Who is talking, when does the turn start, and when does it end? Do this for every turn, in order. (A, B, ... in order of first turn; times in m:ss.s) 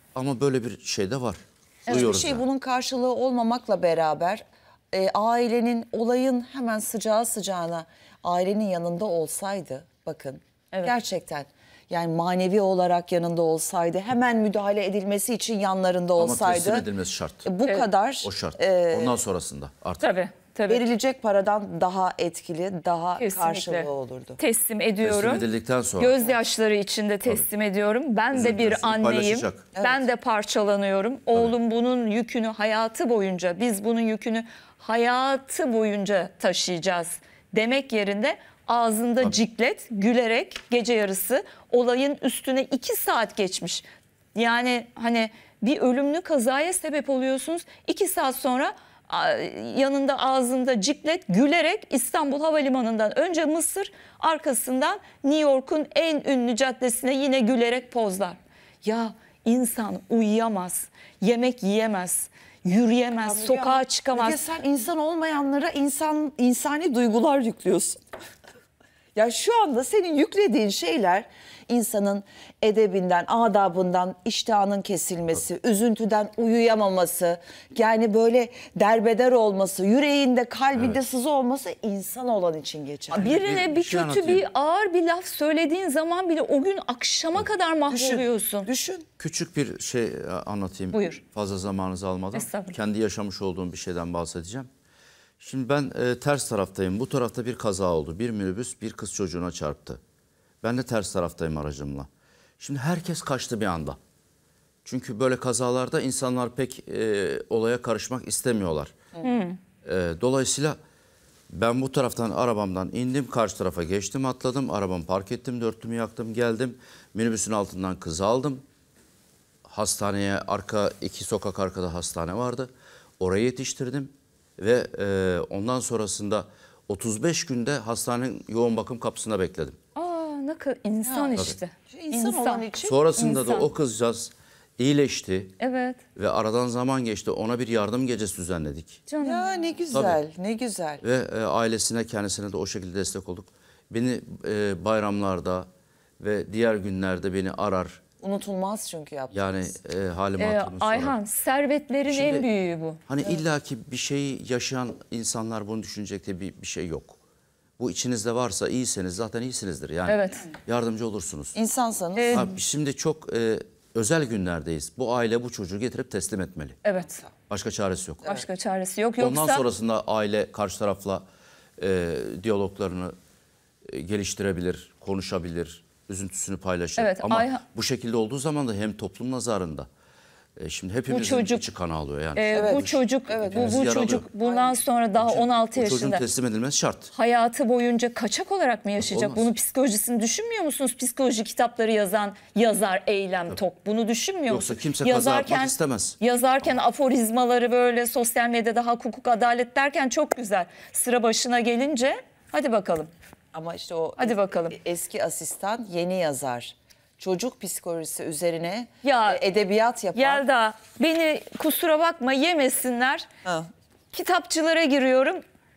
0:00.1-0:02.4 A
0:01.9-0:16.9 B
0:16.2-0:17.5 A
0:17.4-0:19.2 B
0:18.2-0:20.1 A
0:20.0-0:20.9 C
0:20.7-0:24.4 B
0:23.2-0:25.5 C
0:25.0-0:26.2 A
0:26.0-1:04.4 C
0:28.3-0:29.7 A
0:29.7-0:30.0 B
1:03.2-1:08.0 B
1:09.1-1:23.3 B
1:23.1-1:28.7 C
1:23.2-1:24.4 A
1:27.9-1:29.1 B
1:29.2-1:34.7 A
1:30.9-1:31.2 C
1:32.4-1:32.8 C
1:35.4-1:40.0 A
1:40.6-1:44.0 A
1:44.8-1:49.0 A
1:49.2-1:49.6 C
1:49.8-1:50.8 A
1:51.5-1:58.6 A
1:59.6-2:09.8 A
2:10.0-2:13.6 C
2:11.0-2:11.3 B
2:11.9-2:13.0 B
2:12.8-2:15.6 A
2:15.6-2:16.0 C
2:16.1-2:19.0 A
2:19.1-2:19.5 C
2:19.2-2:21.0 B
2:19.9-2:20.2 A
2:21.0-2:25.7 A
2:26.2-2:28.0 A
2:28.2-2:29.5 B
2:29.3-2:31.2 A
2:30.4-2:33.0 C
2:32.1-2:32.5 A
2:33.1-2:37.2 A
2:37.8-2:41.6 A
2:40.1-2:40.4 C
2:41.6-2:42.4 B
2:42.2-2:42.5 C
2:42.3-2:46.8 A
2:46.8-2:47.2 C
2:47.5-2:48.4 A
2:48.2-2:49.6 C
2:49.2-2:51.2 A
2:51.8-2:53.1 A
2:53.8-2:59.9 A
2:57.0-2:57.6 C
3:00.6-3:03.0 A
3:01.1-3:01.6 C
3:02.4-3:06.2 C
3:02.5-3:04.7 B
3:03.5-3:04.3 A
3:05.2-3:07.1 A
3:07.1-3:23.1 C
3:09.0-3:09.5 A
3:14.5-3:16.2 A
3:23.5-3:30.4 B
3:24.2-3:24.8 C
3:29.0-3:29.4 C
3:30.1-3:33.3 C
3:34.1-3:35.4 C